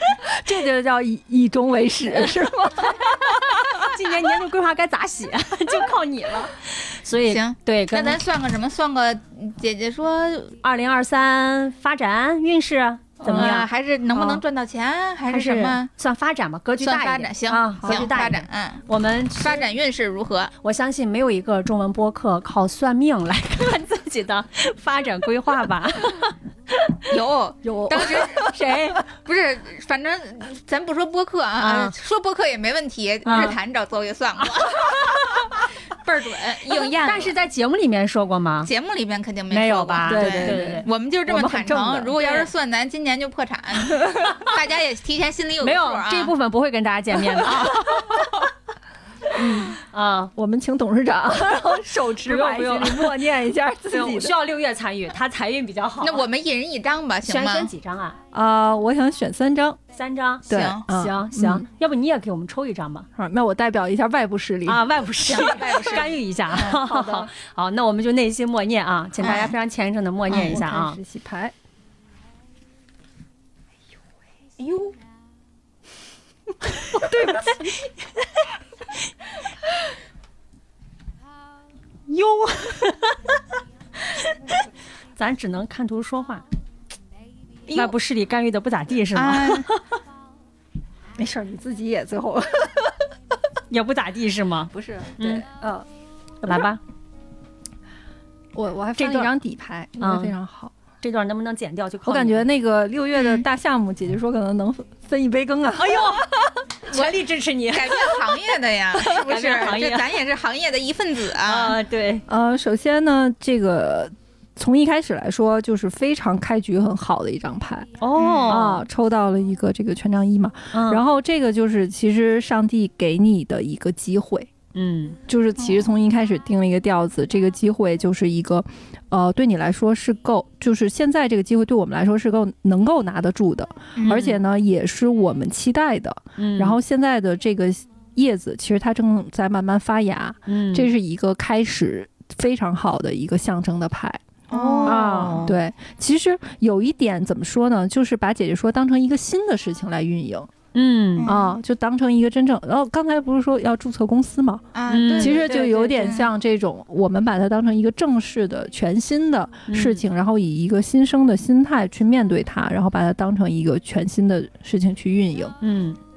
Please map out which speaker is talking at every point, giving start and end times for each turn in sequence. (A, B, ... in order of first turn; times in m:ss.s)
0:00.3-0:03.9 A
0:03.7-0:08.2 B
0:07.2-0:10.5 C
0:10.6-0:14.4 B
0:13.2-0:15.9 C
0:13.3-0:13.5 A
0:15.3-0:19.6 B
0:16.8-0:18.8 C
0:17.8-0:18.2 A
0:19.3-0:20.5 C
0:20.6-0:26.3 B
0:27.0-0:37.4 C
0:27.6-0:29.0 B
0:31.6-0:31.9 B
0:33.2-0:33.6 B
0:36.7-0:38.7 B
0:38.6-0:46.3 C
0:39.5-0:40.9 B
0:40.0-0:42.2 A
0:42.0-0:42.4 B
0:45.6-0:48.2 B
0:49.3-0:49.8 A
0:49.7-0:50.3 B
0:50.3-0:54.4 A
0:51.9-0:53.2 B
0:53.9-0:56.2 B
0:56.0-0:57.7 C
0:57.2-0:58.2 B
0:58.3-0:59.8 A
0:59.9-1:03.1 B
1:00.5-1:01.6 A
1:00.5-1:00.8 C
1:03.2-1:04.9 A
1:04.6-1:11.0 B
1:05.2-1:06.8 C
1:06.8-1:07.3 A
1:09.2-1:09.5 C
1:10.3-1:11.5 A
1:14.6-1:14.9 C
1:17.0-1:17.5 A
1:17.1-1:17.7 B
1:22.1-1:23.1 B
1:25.2-1:26.4 B
1:27.7-1:27.9 C
1:27.7-1:29.8 B
1:29.1-1:29.7 C
1:31.2-1:33.0 A
1:33.7-1:35.5 B
1:34.7-1:35.8 A
1:36.4-1:36.8 B
1:38.5-1:40.7 A
1:39.0-1:39.3 B
1:40.0-1:40.4 B
1:41.0-1:42.5 B
1:42.0-1:46.3 A
1:43.1-1:43.4 C
1:45.7-1:48.2 B
1:46.9-1:47.2 C
1:47.7-1:51.8 C
1:49.0-1:50.2 B
1:51.4-1:52.2 B
1:52.3-1:57.9 A
1:58.0-1:58.8 B
1:58.2-1:58.6 C
1:58.4-2:04.5 A
2:00.7-2:01.0 B
2:04.7-2:05.2 B
2:05.3-2:24.2 A
2:05.6-2:05.9 C
2:14.0-2:14.2 C
2:14.0-2:14.4 B
2:16.4-2:16.8 B
2:20.5-2:20.9 B
2:24.5-2:25.5 C
2:24.5-2:25.6 B
2:24.8-2:30.5 A
2:30.7-2:31.3 B
2:31.2-2:31.6 C
2:31.2-2:45.5 A
2:34.7-2:36.3 C
2:34.9-2:36.2 B
2:39.7-2:40.0 B
2:45.6-2:46.0 B